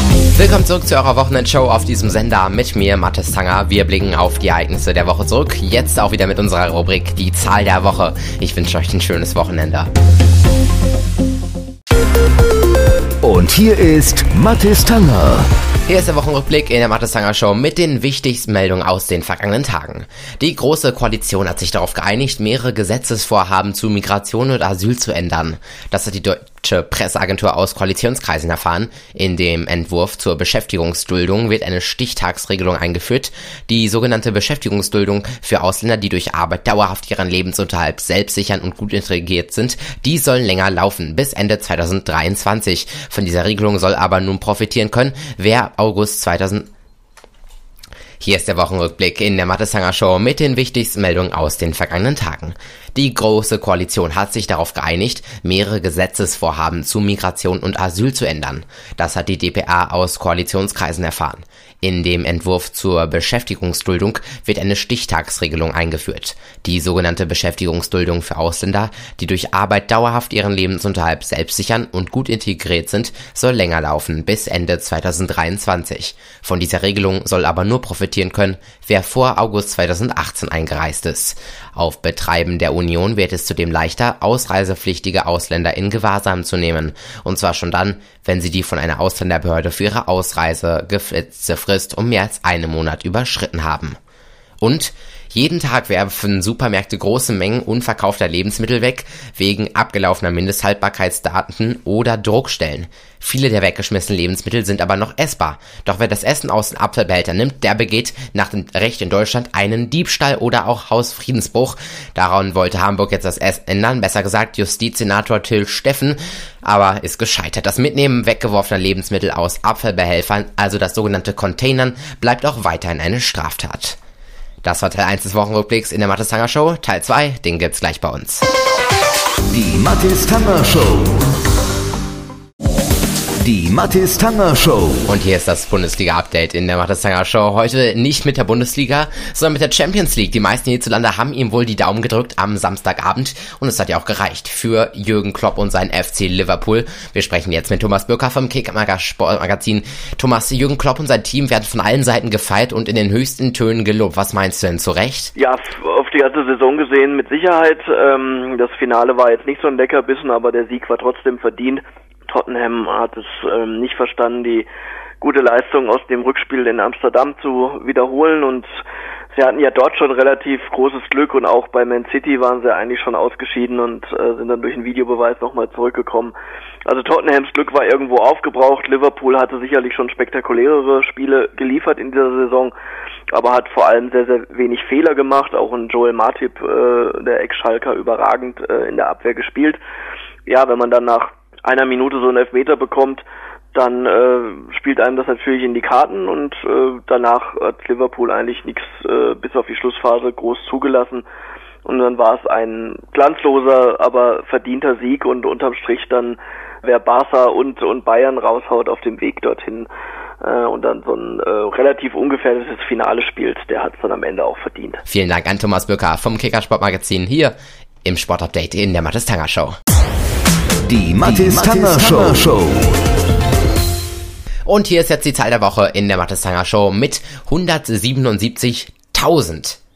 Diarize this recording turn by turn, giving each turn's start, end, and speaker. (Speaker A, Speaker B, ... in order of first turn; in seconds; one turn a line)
Speaker A: 0.3-9.9
Speaker B: 13.2-15.5
Speaker A: 15.9-46.7
Speaker A: 48.2-94.0
Speaker A: 94.6-124.0
Speaker A: 124.6-128.4
Speaker B: 129.5-131.2
Speaker B: 133.4-135.0
Speaker A: 135.1-155.3
Speaker C: 155.3-164.7
Speaker C: 165.2-168.7
Speaker C: 169.3-176.3
Speaker C: 176.8-182.7
Speaker C: 183.3-189.8
Speaker C: 190.5-201.2
Speaker C: 201.8-209.9
Speaker C: 210.4-215.0
Speaker A: 215.1-219.8
Speaker B: 220.8-222.8
Speaker A: 224.7-229.8